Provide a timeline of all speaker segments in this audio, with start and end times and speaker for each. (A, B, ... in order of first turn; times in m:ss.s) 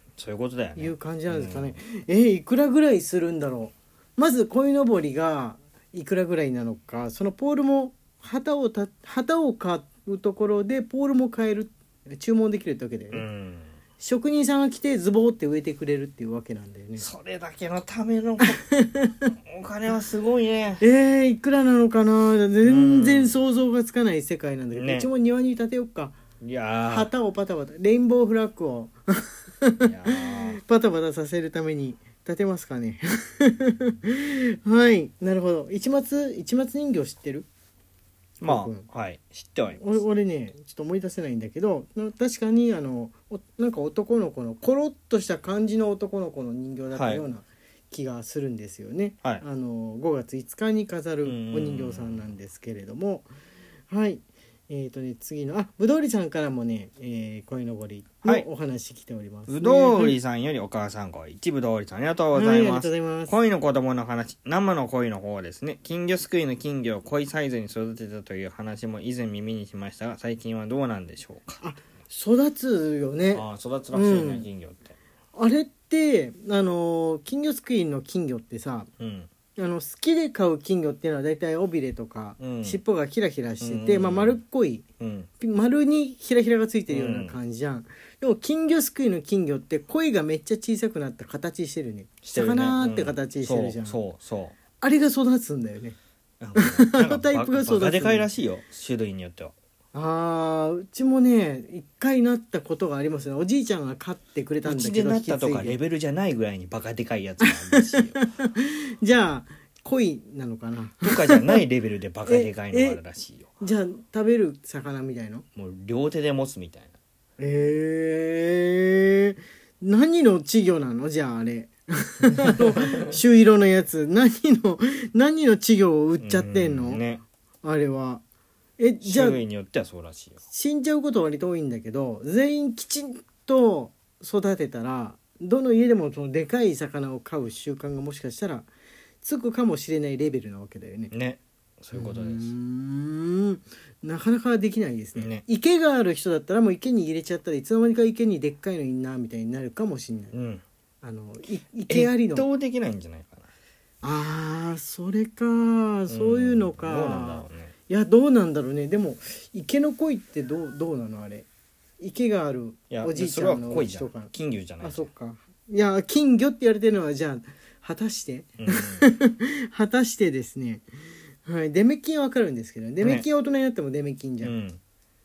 0:00.2-0:01.8 A
0:00.8-0:13.2 B
0:13.1-0:13.7 A
0:14.0-0:17.1 B
0:17.0-0:18.6 A
0:18.4-0:19.1 B
0:19.5-0:20.8 A
0:20.8-0:26.2 B
0:22.6-0:23.4 A
0:24.7-0:25.1 A
0:26.4-0:27.1 A
0:26.9-0:37.5 B
0:29.8-0:30.6 A
0:38.4-0:40.0 A
0:38.4-0:38.9 B
0:39.8-0:53.3 B
0:46.9-0:47.2 A
0:51.2-0:52.2 A
0:53.9-1:00.2 B
0:59.5-1:11.6 A
1:02.3-1:03.3 B
1:11.6-1:14.5 B
1:13.3-1:14.9 A
1:15.3-1:18.9 B
1:19.0-1:19.3 A
1:19.6-1:24.8 B
1:22.4-1:22.8 A
1:23.6-1:24.4 A
1:25.0-1:25.3 A
1:25.4-1:34.0 B
1:26.9-1:27.3 A
1:32.2-1:34.5 A
1:34.8-1:36.0 B
1:36.4-1:39.5 A
1:36.6-1:38.3 B
1:39.9-1:45.8 B
1:44.6-1:48.1 A
1:47.4-1:51.6 B
1:51.0-1:53.5 A
1:52.3-1:53.0 B
1:53.6-1:55.4 B
1:55.6-1:56.9 A
1:57.4-2:07.0 B
2:06.2-2:07.2 A
2:07.6-2:08.2 B
2:08.8-2:09.4 B
2:09.0-2:10.4 A
2:10.5-2:18.7 B
2:19.2-2:21.1 B
2:21.1-2:22.5 A
2:21.9-2:30.3 B
2:25.1-2:25.4 A
2:30.3-2:30.6 A
2:31.0-2:32.5 B
2:31.9-2:33.5 A
2:34.0-2:41.5 B
2:36.1-2:37.7 A
2:42.0-2:44.3 B
2:42.9-2:45.1 A
2:44.8-2:50.8 B
2:48.6-2:49.0 A
2:51.4-2:54.5 B
2:54.4-2:54.8 A